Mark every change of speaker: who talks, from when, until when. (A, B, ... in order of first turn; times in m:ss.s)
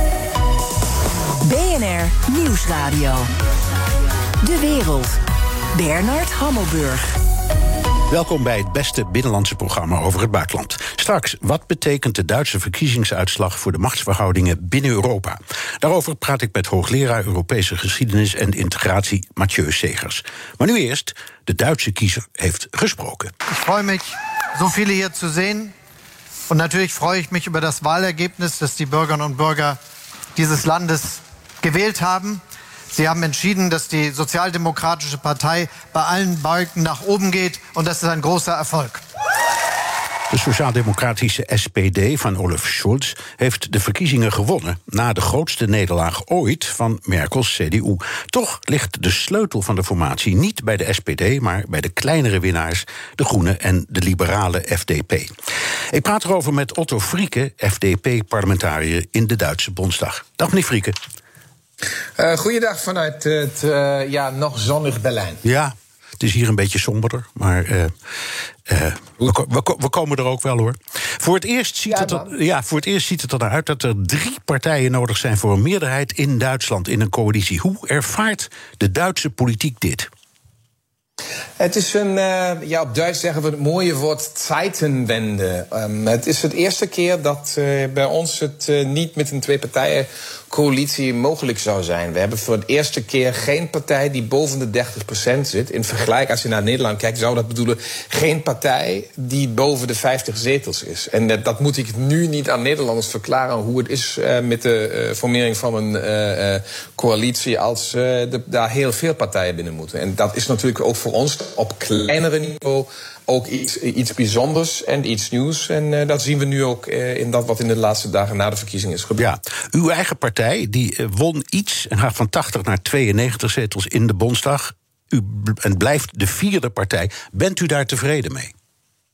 0:01.4-0:03.3 A
0:04.4-0:05.2 A
0:05.7-0:07.1 A
0:08.1-0:23.3 B
0:23.5-0:25.7 C
0:26.5-0:29.8 C
0:30.4-0:32.4 C
0:32.9-0:39.0 C
0:40.3-0:55.3 B
0:55.9-1:01.0 B
1:02.2-1:05.4 D
1:05.4-1:07.9 B
1:08.7-1:20.1 B
1:11.9-1:12.3 D
1:21.6-1:59.3 D
1:59.2-2:08.5 B